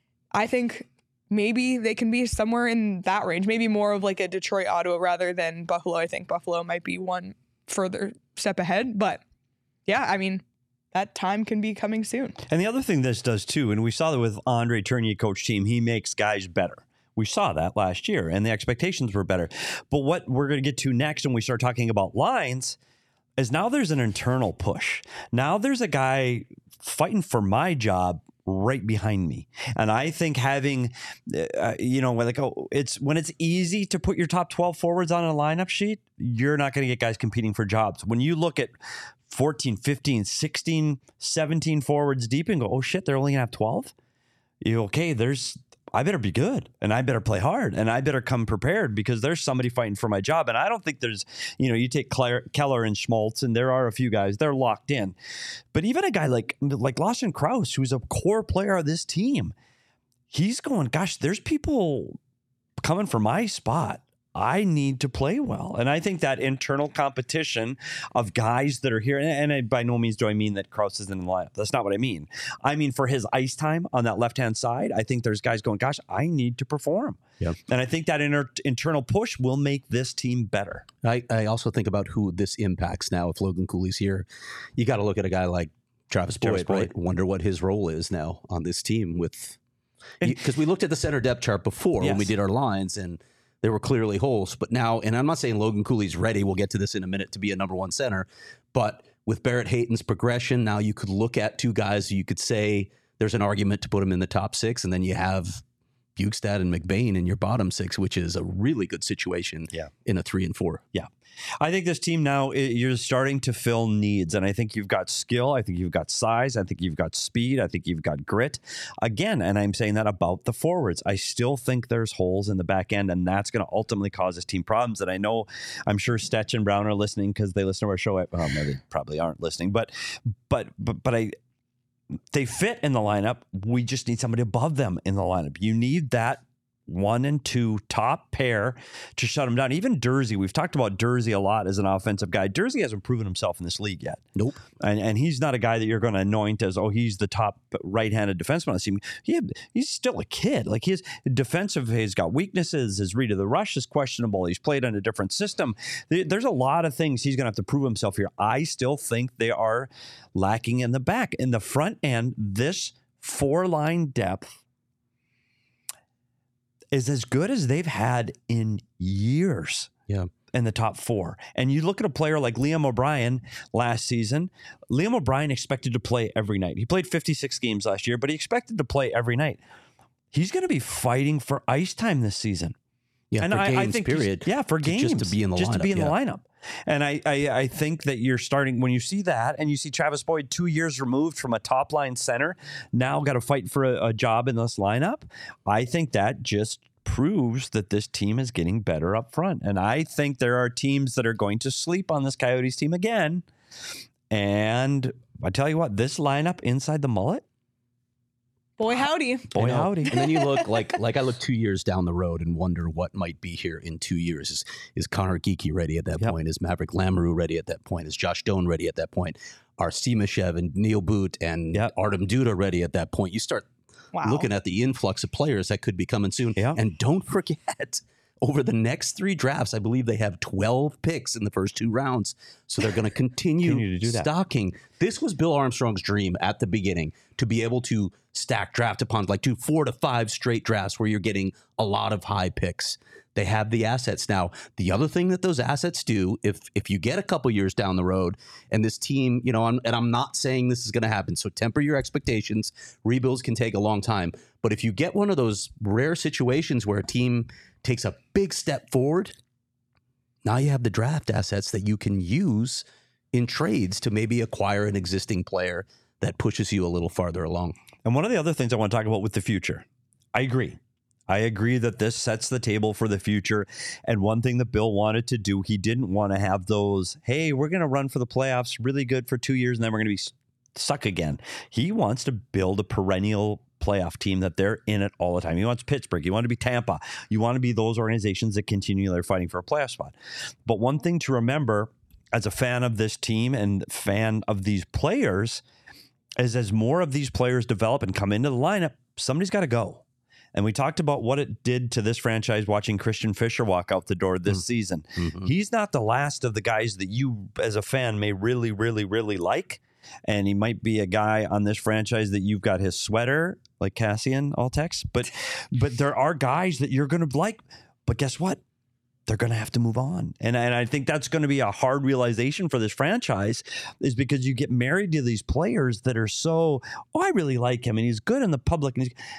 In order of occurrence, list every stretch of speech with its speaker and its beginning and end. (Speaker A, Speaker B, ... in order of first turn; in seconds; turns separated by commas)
Speaker A: 0.3-9.2, Speaker A: 9.9-12.4, Speaker B: 12.5-22.8, Speaker B: 23.4-38.7, Speaker B: 39.3-43.9, Speaker B: 44.6-55.1, Speaker B: 55.7-59.5, Speaker B: 60.3-62.2, Speaker B: 62.8-80.8, Speaker C: 81.0-89.6, Speaker B: 86.4-86.9, Speaker C: 90.2-105.6, Speaker B: 92.0-92.3, Speaker C: 106.2-110.8, Speaker B: 111.6-131.3, Speaker B: 132.3-144.2, Speaker B: 144.8-164.6, Speaker B: 166.9-169.9, Speaker B: 170.5-179.6, Speaker B: 180.3-182.7, Speaker C: 183.3-186.1, Speaker B: 183.4-203.4, Speaker B: 204.3-207.4, Speaker A: 208.8-209.5, Speaker B: 209.5-210.2, Speaker C: 209.5-223.7, Speaker A: 210.1-210.7, Speaker A: 224.1-224.5, Speaker C: 224.2-259.4, Speaker B: 233.6-234.3, Speaker C: 260.4-267.8, Speaker B: 268.0-270.8, Speaker B: 271.3-290.1, Speaker B: 290.6-295.6, Speaker B: 296.4-300.0, Speaker B: 300.5-318.6, Speaker C: 305.1-305.5, Speaker B: 319.3-329.1